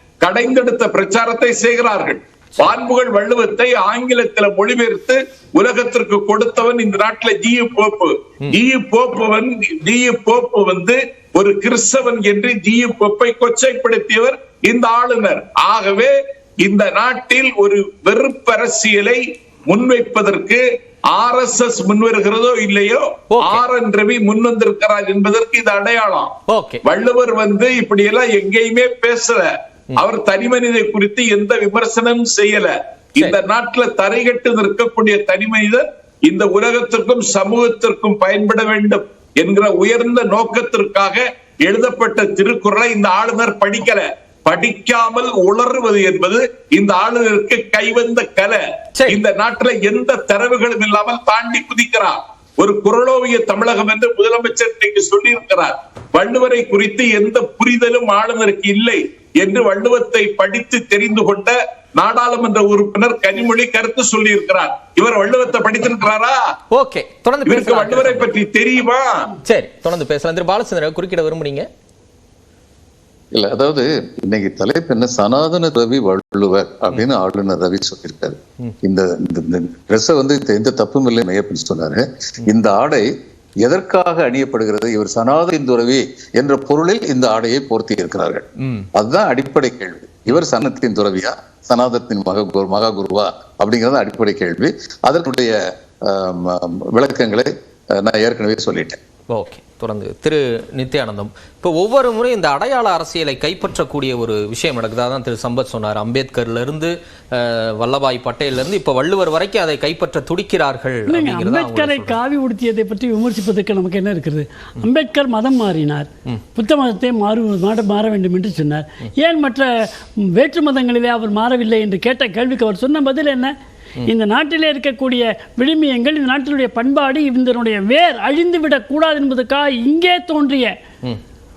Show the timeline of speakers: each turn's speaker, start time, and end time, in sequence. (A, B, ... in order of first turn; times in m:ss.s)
0:00.2-0:26.3 A
0:23.3-0:23.6 B
0:26.5-0:26.8 B
0:26.8-1:06.4 A
1:06.7-1:08.3 B
1:07.4-1:09.3 A
1:09.4-1:11.7 B
1:13.3-1:23.1 C
1:23.6-1:39.0 C
1:28.6-1:28.9 B
1:39.3-1:52.2 B
1:51.1-1:59.7 D
2:00.3-2:10.7 D